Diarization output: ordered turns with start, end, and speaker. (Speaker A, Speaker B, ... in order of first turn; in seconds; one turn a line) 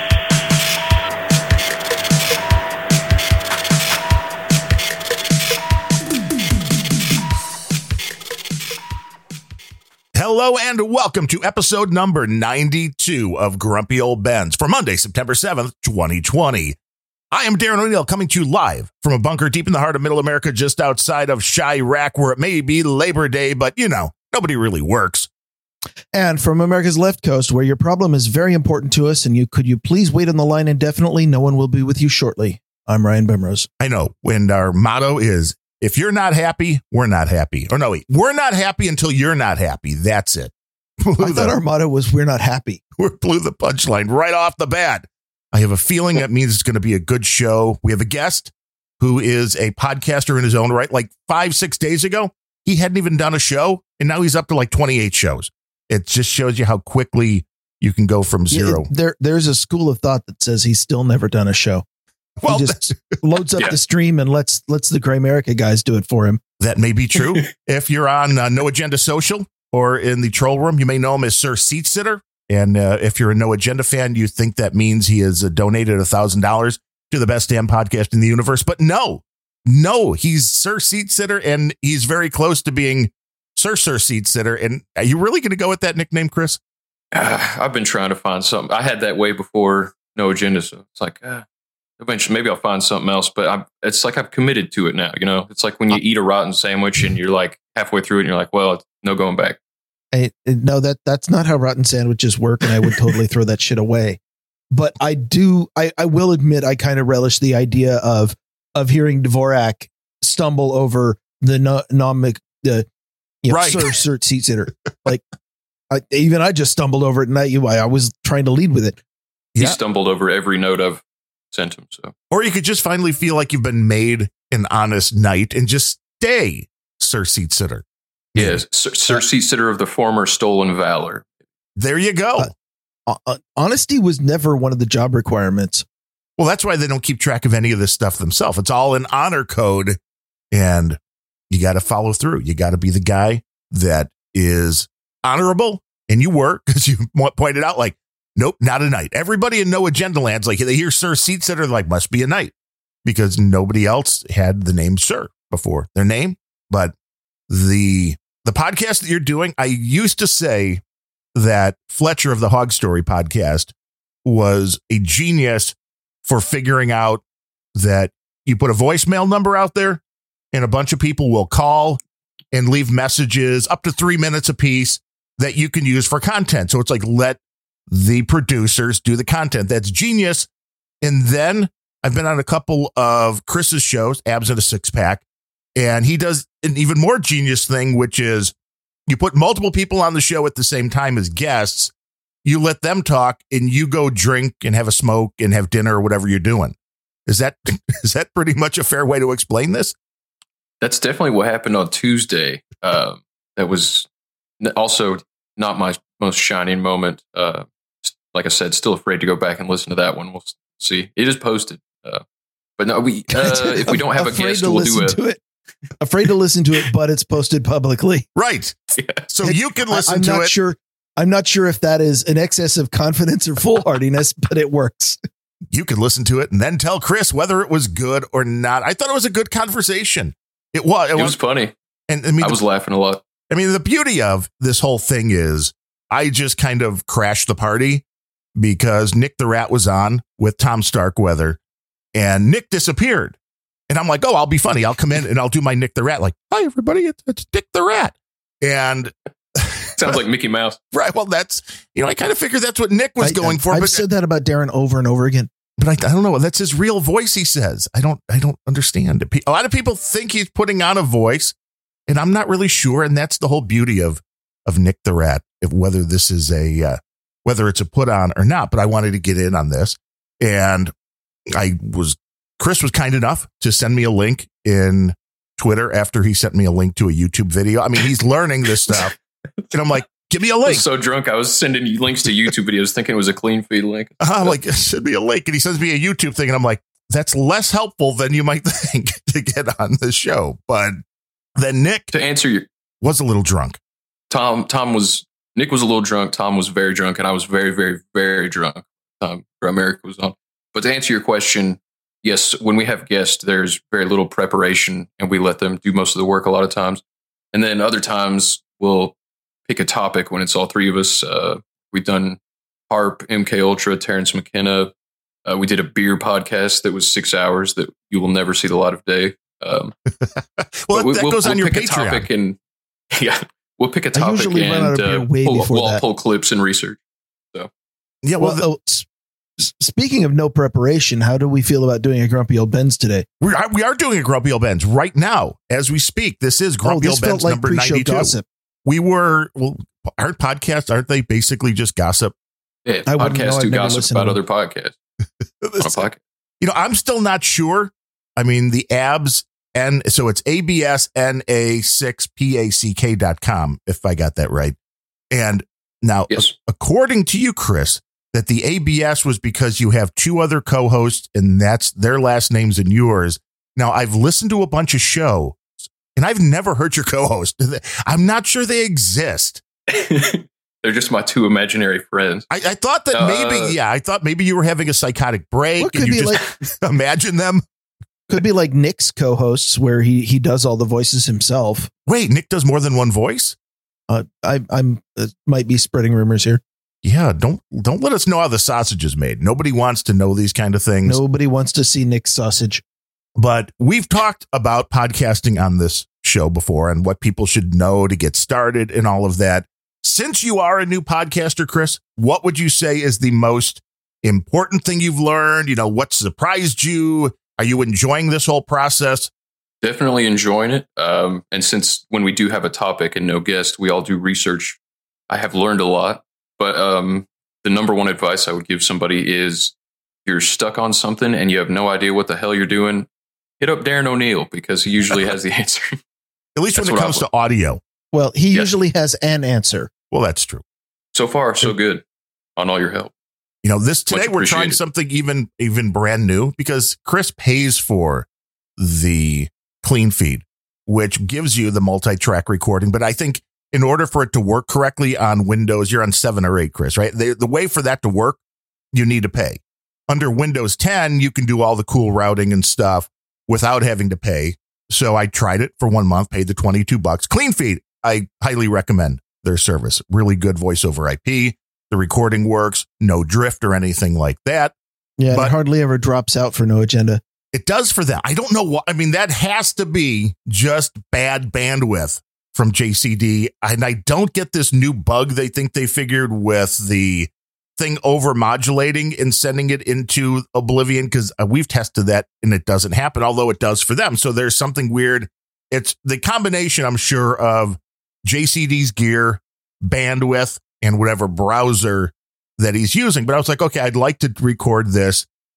Speaker A: 10.1-16.8
Speaker A: 17.3-25.3
Speaker B: 26.1-33.7
Speaker A: 33.8-41.6
Speaker B: 41.2-42.8
Speaker A: 43.0-58.9
Speaker B: 58.5-61.9
Speaker A: 62.4-63.2
Speaker B: 62.5-66.4
Speaker A: 66.6-86.6
Speaker C: 87.1-91.5
Speaker C: 92.0-99.6
Speaker B: 100.1-104.2
Speaker B: 104.7-112.9
Speaker B: 113.4-115.2
Speaker A: 113.5-113.9
Speaker B: 115.9-119.0
Speaker C: 119.6-122.1
Speaker A: 122.3-128.6
Speaker C: 128.4-131.3
Speaker A: 131.8-132.5
Speaker B: 133.1-135.8
Speaker A: 136.4-140.0
Speaker A: 140.5-141.0
Speaker A: 141.5-152.5
Speaker A: 153.1-156.9
Speaker A: 157.5-160.8
Speaker A: 161.3-163.7
Speaker A: 164.2-167.2
Speaker A: 167.8-172.0
Speaker A: 172.5-177.4
Speaker A: 177.9-180.5
Speaker A: 181.0-185.2
Speaker A: 185.8-188.5
Speaker A: 189.1-191.9
Speaker A: 192.4-196.8
Speaker A: 197.3-199.9
Speaker C: 200.8-204.1
Speaker C: 204.6-212.2
Speaker C: 212.8-215.2
Speaker B: 213.3-215.4
Speaker B: 216.0-218.3
Speaker A: 218.4-220.5
Speaker C: 219.0-219.3
Speaker B: 219.4-225.2
Speaker A: 225.7-231.4
Speaker C: 231.2-231.7
Speaker A: 232.1-232.6
Speaker C: 232.4-233.2
Speaker A: 233.5-238.0
Speaker A: 238.6-241.6
Speaker A: 242.2-243.4
Speaker A: 243.9-250.2
Speaker C: 250.0-250.8
Speaker A: 250.9-254.0
Speaker B: 253.2-255.5
Speaker A: 255.8-261.6
Speaker A: 262.1-270.9
Speaker A: 271.5-279.1
Speaker A: 279.7-280.9
Speaker C: 280.6-284.5
Speaker A: 284.2-291.0
Speaker A: 291.6-292.1
Speaker C: 292.1-292.7
Speaker A: 293.0-293.8
Speaker C: 294.3-307.0
Speaker C: 307.5-309.1
Speaker C: 309.7-312.4
Speaker C: 312.9-314.9
Speaker C: 315.5-319.9
Speaker A: 320.2-322.3
Speaker C: 320.9-322.6
Speaker C: 323.1-327.0
Speaker B: 324.1-326.0
Speaker A: 328.2-328.7
Speaker B: 328.4-329.1
Speaker B: 329.6-333.3
Speaker A: 333.4-342.3
Speaker B: 336.8-338.5
Speaker C: 342.9-345.0
Speaker B: 343.1-344.4
Speaker A: 345.6-346.0
Speaker C: 345.8-346.2
Speaker A: 346.6-354.8
Speaker A: 355.3-365.6
Speaker A: 366.1-369.6
Speaker C: 369.9-372.5
Speaker A: 372.5-377.6
Speaker C: 373.1-373.8
Speaker B: 375.8-376.4
Speaker B: 378.3-381.9
Speaker A: 382.1-383.6
Speaker B: 384.1-386.6
Speaker A: 387.0-391.2
Speaker B: 391.1-392.8
Speaker A: 393.4-409.3
Speaker C: 409.8-414.8
Speaker C: 415.3-419.8
Speaker C: 420.3-423.1
Speaker C: 423.6-426.0
Speaker A: 426.6-427.8
Speaker C: 426.8-427.2
Speaker B: 428.1-429.9
Speaker A: 430.1-430.6
Speaker C: 431.1-432.0
Speaker C: 432.6-433.1
Speaker A: 433.6-438.3
Speaker C: 434.1-434.8
Speaker A: 438.8-448.4
Speaker A: 448.9-464.7
Speaker B: 465.2-467.2
Speaker A: 467.5-495.3